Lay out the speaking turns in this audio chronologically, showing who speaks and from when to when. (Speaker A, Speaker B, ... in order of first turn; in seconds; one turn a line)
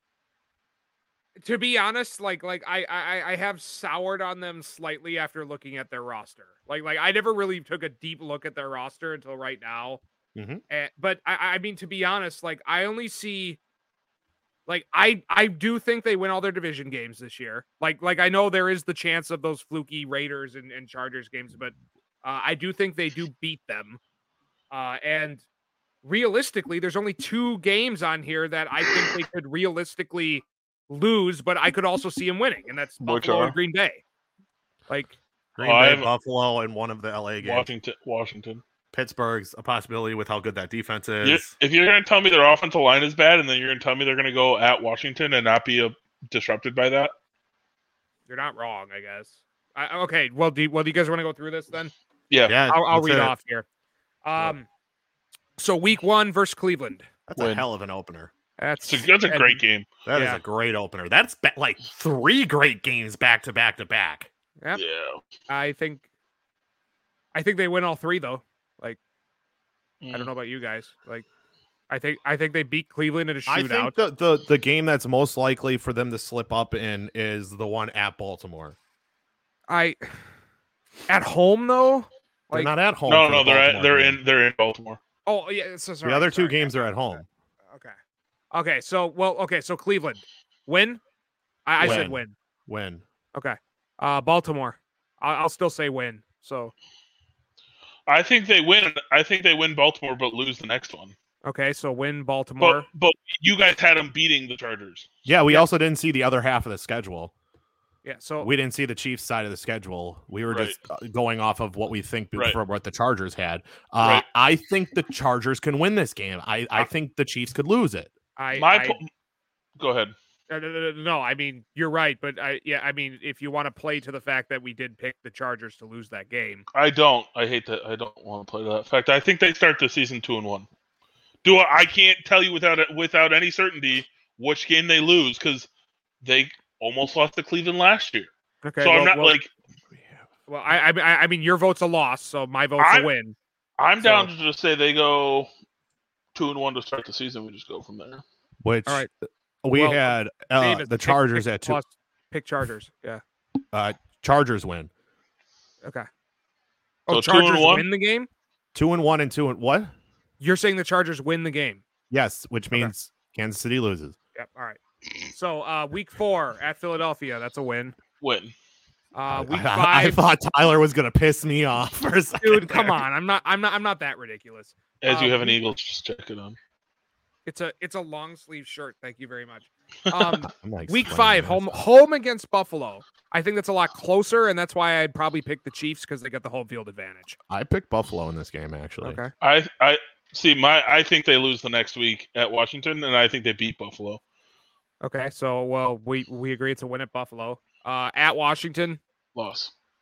Speaker A: 1.4-10.0
Speaker B: 10.3-10.6
Speaker A: 10.7-13.6
Speaker A: 14.7-24.0
Speaker A: 24.7-25.4
Speaker A: 26.0-34.0
Speaker C: 33.0-33.5
Speaker A: 34.9-35.2
Speaker B: 35.5-37.7
Speaker C: 35.6-36.1
Speaker C: 37.4-38.6
Speaker B: 38.9-41.5
Speaker C: 41.2-47.1
Speaker A: 48.3-51.9
Speaker C: 52.3-52.6
Speaker B: 52.5-53.3
Speaker A: 52.7-53.6
Speaker A: 54.2-54.6
Speaker A: 55.6-57.0
Speaker B: 57.3-58.3
Speaker C: 57.4-57.6
Speaker A: 58.6-59.6
Speaker C: 58.9-59.9
Speaker B: 60.0-64.3
Speaker A: 60.1-60.4
Speaker C: 64.7-65.2
Speaker A: 65.5-66.0
Speaker A: 67.3-69.0
Speaker C: 70.0-70.3
Speaker A: 70.1-71.2
Speaker A: 71.9-73.9
Speaker B: 73.5-78.8
Speaker A: 79.7-80.0
Speaker A: 81.1-82.7
Speaker B: 82.5-84.2
Speaker C: 83.0-85.0
Speaker A: 85.2-87.9
Speaker B: 86.0-87.2
Speaker A: 88.5-91.0
Speaker A: 91.7-92.3
Speaker C: 91.8-92.1
Speaker B: 91.8-93.0
Speaker A: 93.3-96.7
Speaker C: 98.1-101.1
Speaker A: 101.4-102.8
Speaker C: 102.6-105.1
Speaker B: 105.2-107.3
Speaker A: 108.0-108.5
Speaker B: 108.4-118.1
Speaker A: 118.4-119.0
Speaker C: 118.5-119.1
Speaker C: 119.8-120.1
Speaker A: 120.5-126.6
Speaker C: 126.7-130.7
Speaker C: 131.4-135.7
Speaker C: 136.2-138.3
Speaker A: 138.6-139.4
Speaker C: 138.8-139.5
Speaker A: 140.5-143.3
Speaker C: 142.8-143.1
Speaker C: 143.8-145.5
Speaker A: 144.0-144.3
Speaker C: 146.3-148.2
Speaker B: 148.6-149.1
Speaker B: 149.6-151.8
Speaker A: 149.7-153.2
Speaker B: 153.7-154.9
Speaker A: 157.1-158.3
Speaker C: 157.1-157.8
Speaker B: 158.7-159.9
Speaker A: 160.4-161.8
Speaker B: 162.1-164.2
Speaker A: 164.3-164.8
Speaker A: 165.3-167.9
Speaker C: 168.2-168.5
Speaker A: 169.1-170.2
Speaker B: 169.3-173.0
Speaker A: 172.4-175.6
Speaker C: 175.0-176.6
Speaker A: 177.4-187.4
Speaker C: 180.1-180.3
Speaker B: 180.5-181.8
Speaker B: 187.5-189.2
Speaker A: 189.0-189.3
Speaker C: 189.4-194.2
Speaker A: 195.0-199.0
Speaker C: 199.3-199.7